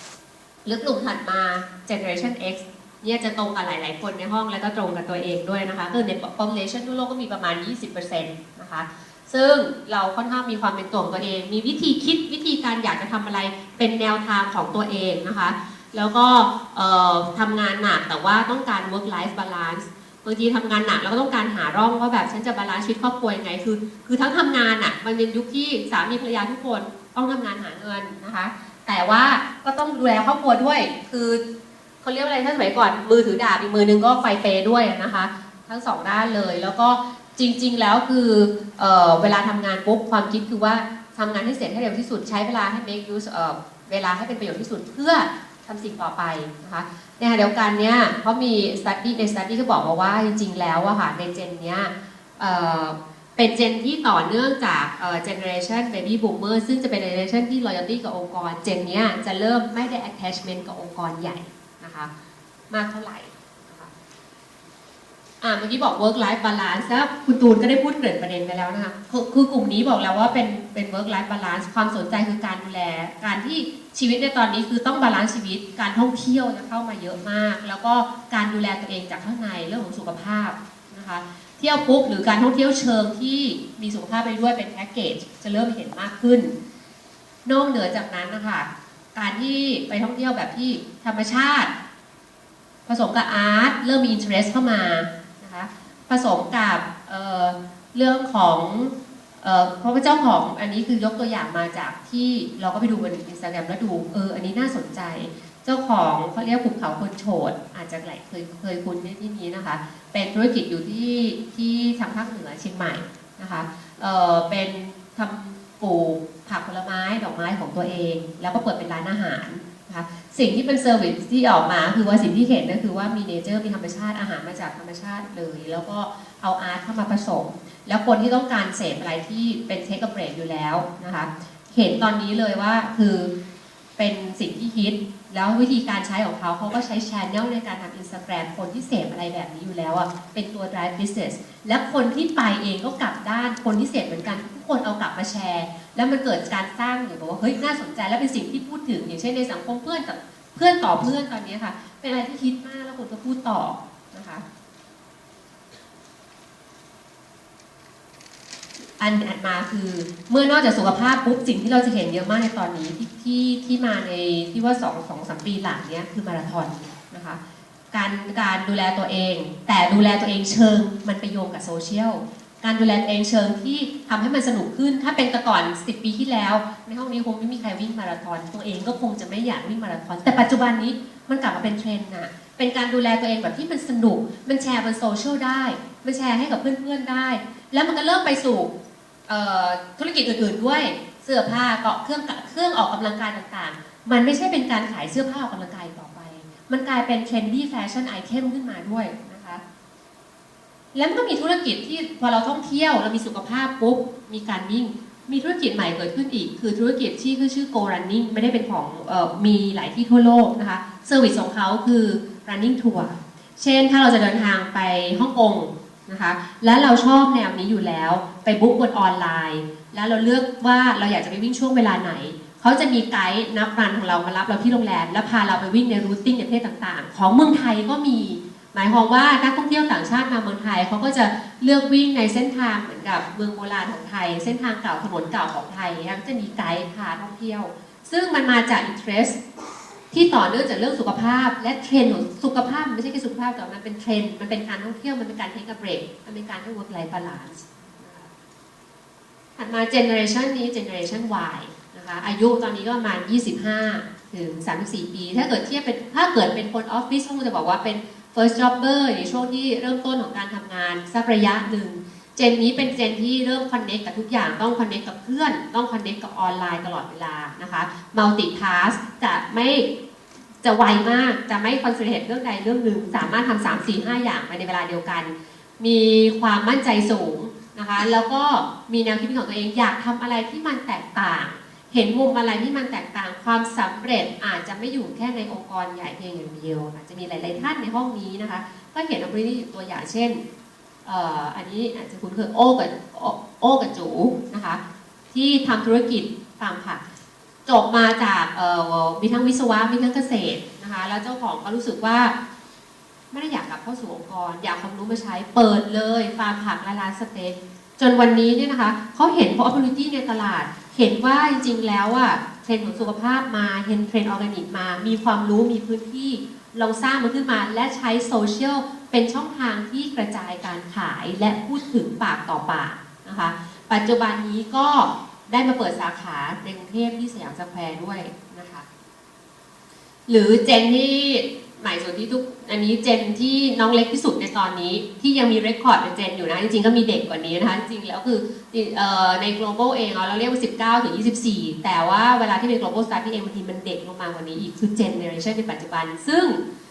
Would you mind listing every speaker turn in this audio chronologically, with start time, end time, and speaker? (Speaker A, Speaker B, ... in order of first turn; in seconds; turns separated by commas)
Speaker A: 0.7-31.4, Speaker A: 32.0-62.1, Speaker A: 62.7-63.9, Speaker A: 65.4-86.5, Speaker A: 87.5-91.7, Speaker A: 92.9-133.3, Speaker A: 134.0-154.4, Speaker A: 159.0-167.4, Speaker A: 167.9-188.7, Speaker A: 189.3-199.6, Speaker A: 200.9-239.4, Speaker A: 240.1-248.3, Speaker A: 249.6-269.9, Speaker A: 270.6-290.4, Speaker A: 291.1-294.8, Speaker A: 295.3-297.0, Speaker A: 297.7-302.3, Speaker A: 303.3-328.9, Speaker A: 330.3-346.6